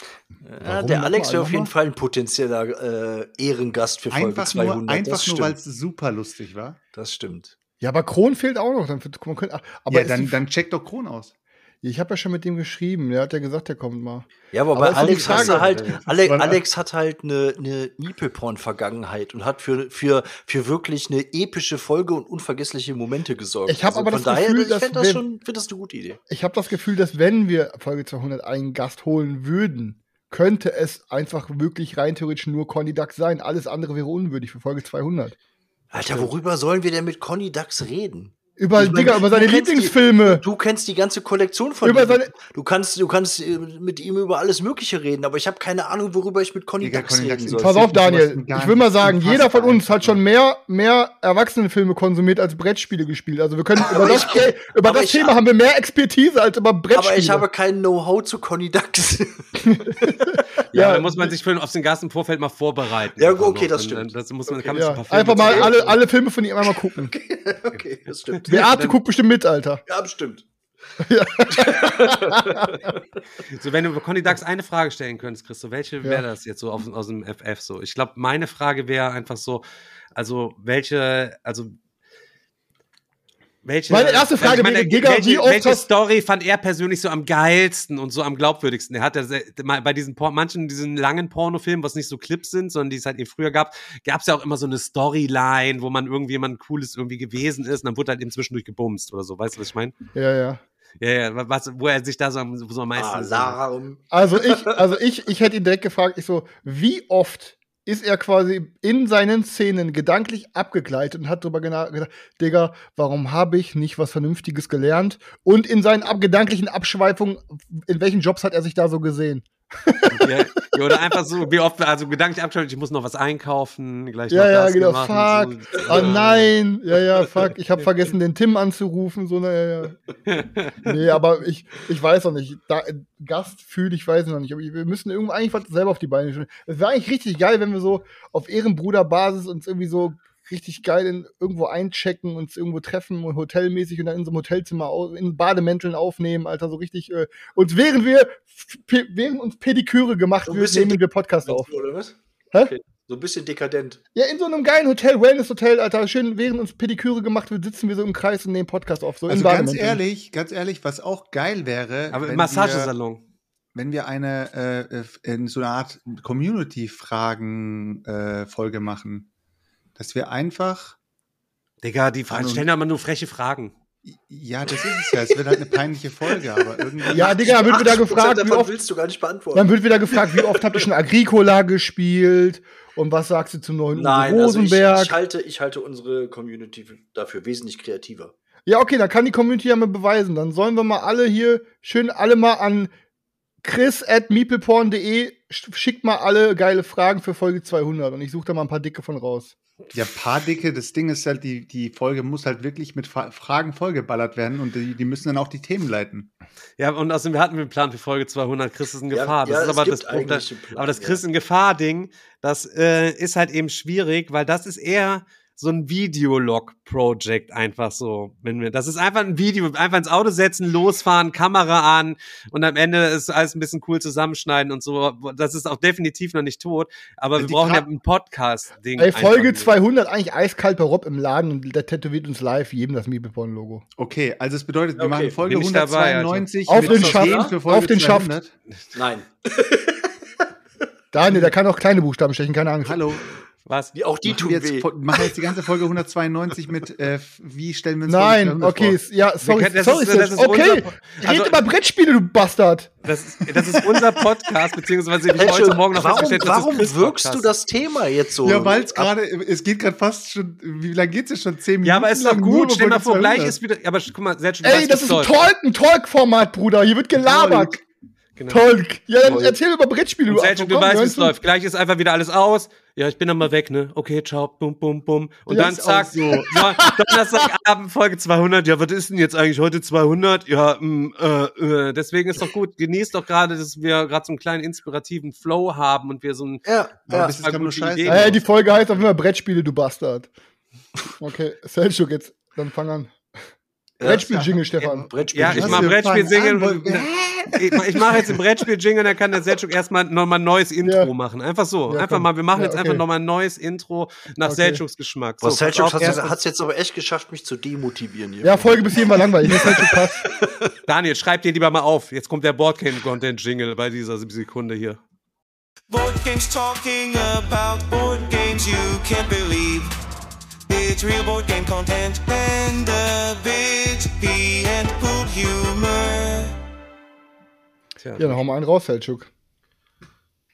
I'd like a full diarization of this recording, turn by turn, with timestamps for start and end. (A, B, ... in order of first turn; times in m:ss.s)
0:00.4-0:05.6 A
0:00.6-0:01.0 B
0:00.9-0:01.7 C
0:04.1-0:06.8 B
0:06.9-0:07.5 A
0:07.8-0:10.4 C
0:09.9-0:11.3 B
0:11.8-0:15.9 C
0:14.5-0:26.2 A
0:14.9-0:16.0 D
0:16.1-0:16.6 B
0:23.7-0:25.2 C
0:26.3-0:35.4 C
0:35.9-0:47.8 A
0:38.6-0:40.4 C
0:41.8-0:42.3 C
0:46.8-0:50.2 B
0:47.6-0:57.5 C
0:53.8-0:55.4 A
0:56.9-1:01.0 A
0:59.7-1:01.3 C
1:00.7-1:06.0 D
1:03.2-1:05.8 A
1:04.7-1:07.1 C
1:07.0-1:09.0 A
1:08.5-1:09.8 C
1:09.9-1:10.5 A
1:11.0-1:12.9 C
1:11.5-1:13.0 A
1:13.5-1:19.6 D
1:20.2-1:21.7 D
1:23.6-1:39.9 D
1:23.9-1:25.8 C
1:40.1-1:40.6 C
1:41.0-1:43.6 D
1:43.0-1:44.9 A
1:44.1-2:00.3 C
2:00.1-2:06.5 D
2:04.3-2:10.0 C
2:10.3-2:10.7 D
2:10.8-2:31.7 C
2:30.5-2:34.0 A
2:34.2-2:40.0 C
2:39.3-2:42.9 B
2:42.1-2:43.2 D
2:43.7-2:49.3 B
2:50.0-2:51.0 B
2:51.8-2:53.7 D
2:52.3-2:52.7 B
2:54.0-2:57.6 B
2:54.8-2:55.7 A
2:56.3-3:00.9 A
2:57.1-2:58.8 C
2:59.5-3:05.2 C
3:03.9-3:08.3 A
3:08.7-3:12.9 C
3:13.6-3:19.6 C
3:19.9-3:26.3 B
3:26.8-3:49.7 D
3:29.1-3:31.2 A
3:47.4-3:47.8 B
3:49.0-3:53.8 C
3:54.0-3:58.5 B
3:55.0-3:55.4 A
3:55.5-3:56.5 D
3:56.7-3:58.3 C
3:56.8-3:57.6 A
3:58.9-4:00.4 A
4:01.1-4:03.1 C
4:02.9-4:03.2 B
4:03.7-4:03.9 D
4:03.9-4:05.4 A
4:04.2-4:09.0 B
4:08.1-4:12.9 C
4:09.4-4:11.6 D
4:13.0-4:17.5 D
4:15.4-4:19.1 A
4:18.4-4:23.6 B
4:21.8-4:25.5 D
4:24.6-4:27.8 C
4:27.2-4:27.7 B
4:28.4-4:28.7 D
4:28.5-4:31.3 C
4:29.2-4:29.6 D
4:30.3-4:48.4 D
4:35.5-4:36.6 B
4:46.6-4:47.4 A
4:47.1-4:48.4 B
4:48.1-4:50.3 C
4:51.2-4:53.2 C
4:54.0-4:56.0 A
4:54.0-4:55.1 C
4:54.1-4:54.6 B
4:55.3-4:58.3 B
4:55.3-5:06.3 D
5:00.8-5:01.1 C
5:01.9-5:03.0 C
5:04.4-5:04.8 C
5:05.4-5:10.7 A
5:08.4-5:10.3 C
5:10.9-5:15.0 D
5:15.9-5:19.9 E
5:20.7-5:26.5 E
5:28.0-5:28.4 D
5:28.2-5:29.3 C